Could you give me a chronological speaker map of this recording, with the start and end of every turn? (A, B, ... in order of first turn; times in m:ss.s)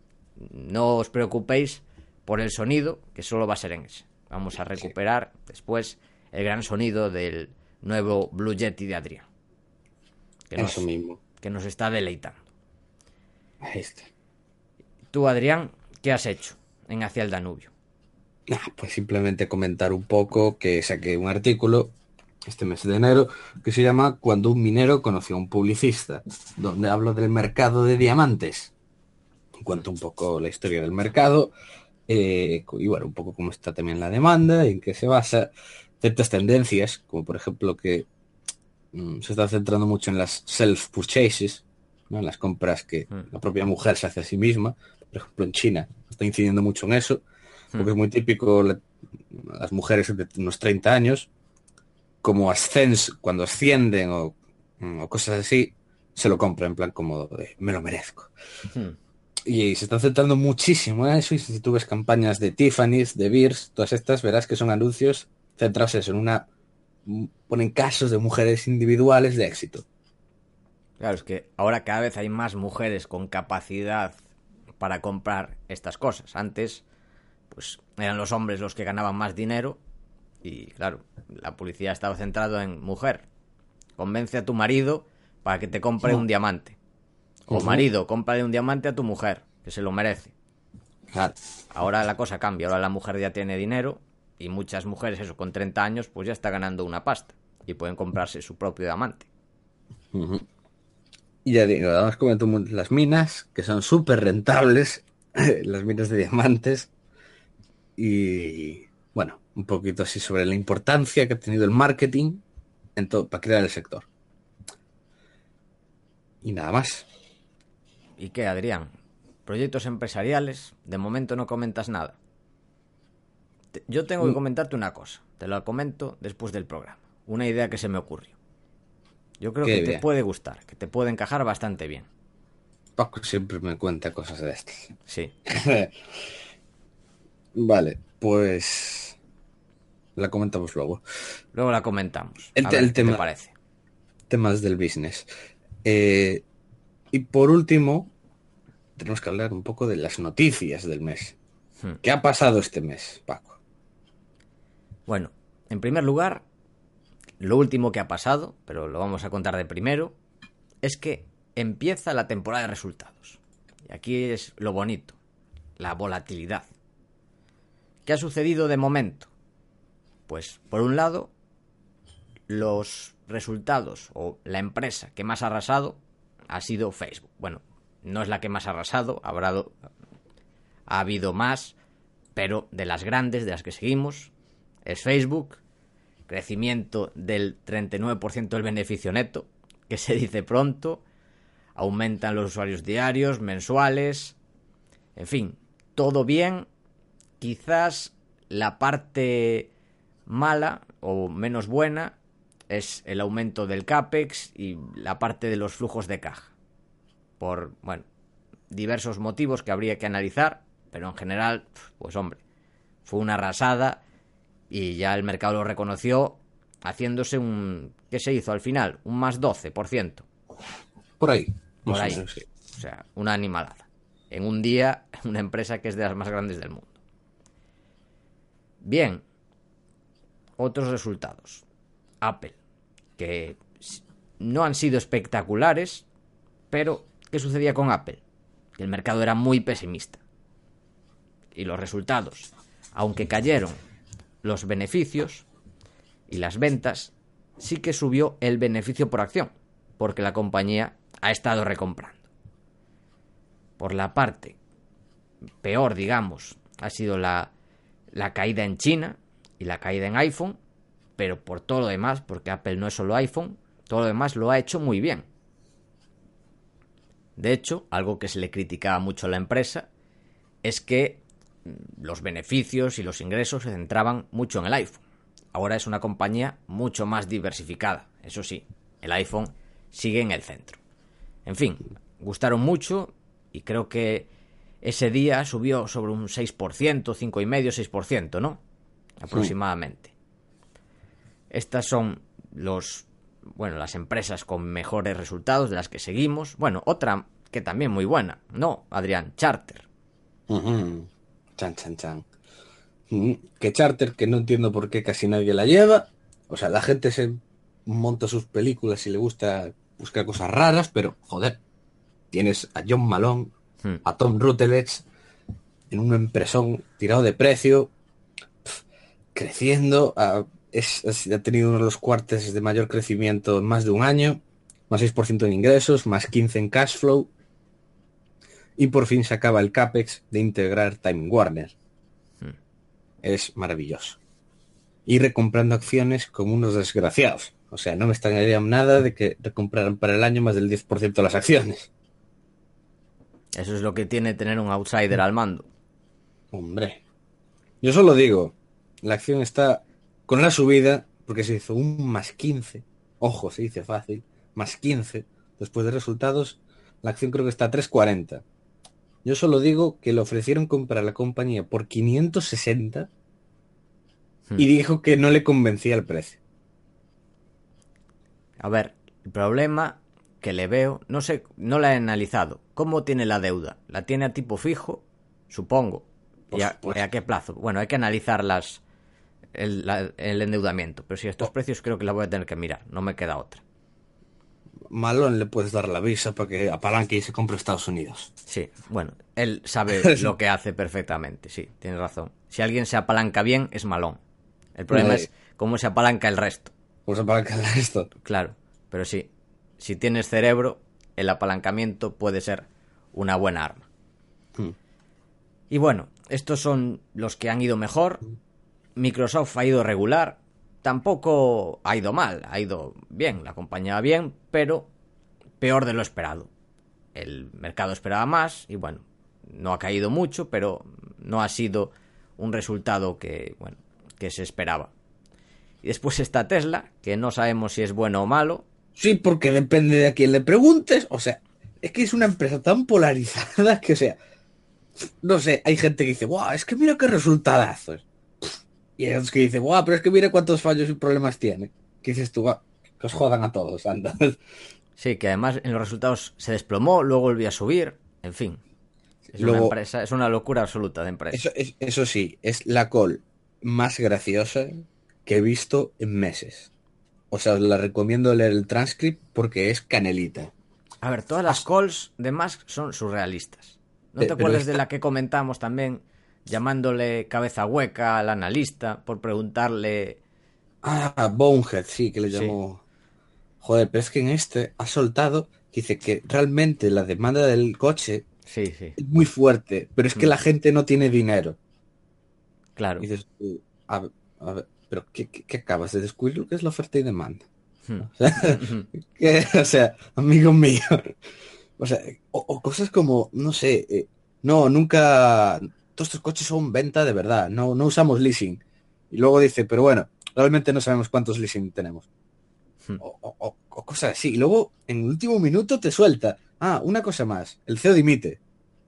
0:00.4-0:09.2 A
0:10.5-0:10.9 A
0:10.6-0:11.2 B
0:11.4-0:12.4 A
0:13.6-0:14.1 B
0:15.1-0:17.7 A
0:18.5-0:21.9 B
0:22.5-0:28.7 B
0:29.6-0:31.5 B
0:32.1-0:38.1 B
0:38.9-0:47.2 B
0:47.8-0:51.3 B
0:52.2-0:58.3 B
0:59.4-1:06.4 B
1:07.0-1:09.8 B
1:11.0-1:14.1 A
1:14.8-1:16.8 A
1:17.5-1:19.8 A
1:20.4-1:23.2 A
1:24.0-1:26.8 A
1:27.5-1:30.3 A
1:27.5-1:27.8 B
1:31.7-1:39.3 A
1:40.1-1:40.4 B
1:41.4-1:46.9 B
1:48.0-1:52.4 B
1:53.0-1:54.1 B
1:56.4-1:57.1 B
1:58.2-1:58.9 A
1:59.4-2:02.1 A
2:03.7-2:08.4 A
2:09.4-2:12.1 A
2:09.6-2:10.0 B
2:13.0-2:14.9 B
2:15.1-2:15.3 A
2:15.4-2:15.9 B
2:17.5-2:19.2 B
2:20.2-2:21.0 B
2:21.5-2:23.5 A
2:22.6-2:23.2 B
2:24.3-2:25.3 B
2:25.8-2:26.4 B
2:27.1-2:28.1 B
2:29.0-2:31.4 B
2:32.0-2:33.6 B
2:35.1-2:36.4 A
2:37.4-2:40.1 A
2:40.8-2:45.2 A
2:45.8-2:46.7 A
2:48.0-2:49.3 A
2:50.3-2:51.3 A
2:52.5-2:56.0 A
2:56.5-2:59.8 A
3:00.9-3:01.7 A
3:02.3-3:04.3 A
3:04.8-3:05.6 A
3:06.3-3:11.0 A
3:11.8-3:14.4 A
3:15.2-3:16.7 A
3:17.4-3:19.7 A
3:20.2-3:22.2 A
3:22.7-3:26.5 A
3:27.4-3:28.0 A
3:28.7-3:32.4 A
3:33.0-3:34.0 A
3:34.7-3:40.2 A
3:41.2-3:42.4 B
3:41.9-3:46.9 A
3:48.8-3:49.2 A
3:50.6-3:51.6 A
3:52.2-3:52.6 A
3:53.2-3:56.0 A
3:56.7-3:58.2 A
3:58.8-4:00.2 A
4:01.5-4:03.8 A
4:04.4-4:05.4 A
4:06.3-4:12.3 A
4:13.8-4:14.6 A
4:15.6-4:17.5 A
4:18.1-4:20.6 A
4:21.2-4:25.2 A
4:27.4-4:29.9 A
4:30.6-4:35.0 A
4:35.5-4:40.8 A
4:41.4-4:44.3 A
4:44.8-4:48.6 A
4:49.2-4:50.1 A
4:51.5-4:59.8 A
5:00.5-5:02.2 B
5:03.1-5:11.6 B
5:12.3-5:13.5 B
5:14.0-5:15.0 B
5:15.9-5:17.9 B
5:19.3-5:27.3 B
5:28.8-5:31.7 B
5:33.2-5:34.2 B
5:35.0-5:41.9 B
5:43.5-5:45.7 A
5:46.5-5:47.0 B
5:47.8-5:58.4 B
5:59.2-6:03.1 B
6:04.6-6:06.4 B
6:08.6-6:18.8 A
6:16.5-6:17.0 B
6:19.5-6:23.6 A
6:24.9-6:28.3 B
6:28.5-6:34.2 A
6:29.9-6:30.3 B
6:34.8-6:36.7 A
6:34.9-6:35.3 B
6:37.0-6:38.1 B
6:38.2-6:39.3 A
6:39.8-6:43.8 A
6:45.7-6:48.2 A
6:49.0-6:54.9 A
6:55.6-6:56.5 A
6:57.1-7:04.9 A
7:05.8-7:08.6 A
7:09.0-7:14.2 B
7:15.0-7:24.4 B
7:25.0-7:28.6 A
7:29.3-7:29.7 B
7:29.4-7:31.4 A
7:31.3-7:36.7 B
7:37.3-7:40.5 B
7:41.0-7:50.2 A
7:44.2-7:44.8 B
7:50.8-7:52.8 B
7:52.3-7:52.6 A
7:53.6-7:58.2 B
7:58.5-7:59.0 A
7:59.0-8:01.6 B
8:02.8-8:03.0 A
8:03.0-8:07.4 B
8:07.9-8:08.9 A
8:08.0-8:11.2 B
8:11.8-8:22.1 B
8:23.0-8:28.4 B